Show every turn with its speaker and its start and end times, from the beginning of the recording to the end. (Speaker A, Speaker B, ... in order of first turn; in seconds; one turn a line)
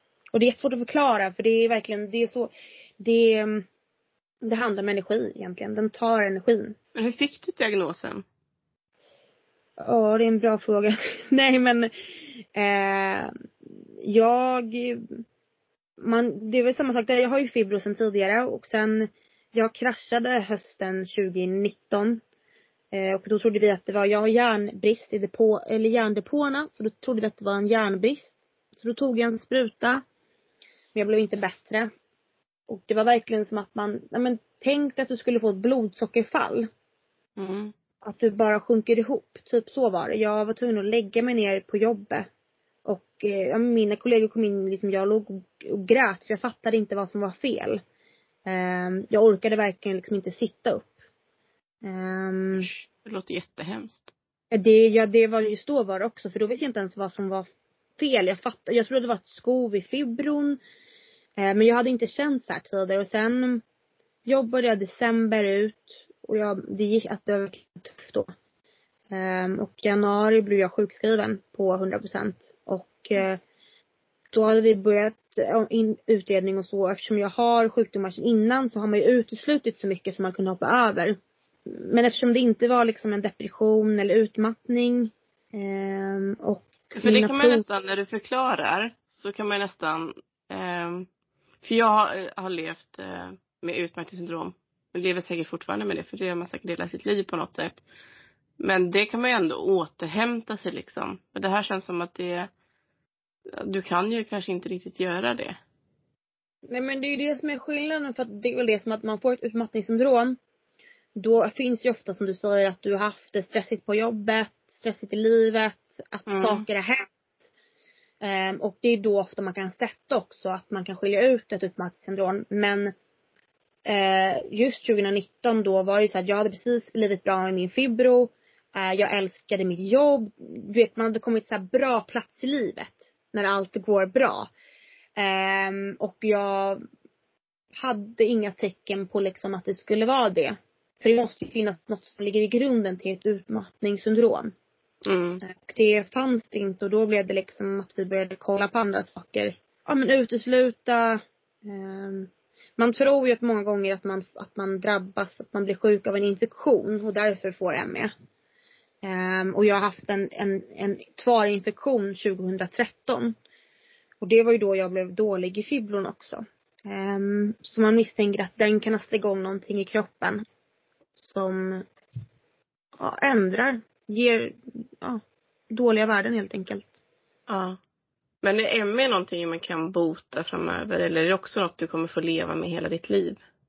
Speaker A: 0.3-3.7
Speaker A: 4.4-6.8
Speaker B: 7.0-8.2
Speaker A: 9.8-13.3
Speaker A: 14.0-15.2
Speaker A: 16.0-22.2
Speaker A: 22.9-30.0
Speaker A: 30.9-31.9
Speaker A: 32.7-36.7
Speaker B: 37.4-37.7
Speaker A: 38.0-42.3
Speaker A: 42.9-47.8
Speaker A: 48.5-50.9
Speaker A: 51.8-52.7
Speaker B: 52.6-54.1
Speaker A: 54.5-57.5
Speaker A: 58.0-60.6
Speaker A: 61.4-63.6
Speaker A: 64.3-68.3
Speaker A: 69.1-73.4
Speaker A: 74.3-87.6
Speaker B: 87.0-91.1
Speaker B: 91.6-97.8
Speaker B: 98.6-102.5
Speaker B: 103.5-105.6
Speaker A: 106.7-110.4
Speaker A: 111.2-117.1
Speaker B: 116.3-116.7
Speaker A: 118.2-122.9
Speaker A: 123.9-134.5
Speaker A: 135.2-136.8
Speaker A: 137.8-144.5
Speaker B: 145.0-145.4
Speaker A: 145.4-158.1
Speaker A: 159.0-163.3
Speaker A: 164.2-170.4
Speaker A: 171.2-171.9
Speaker A: 173.0-176.9
Speaker B: 177.5-177.8
Speaker B: 178.4-183.4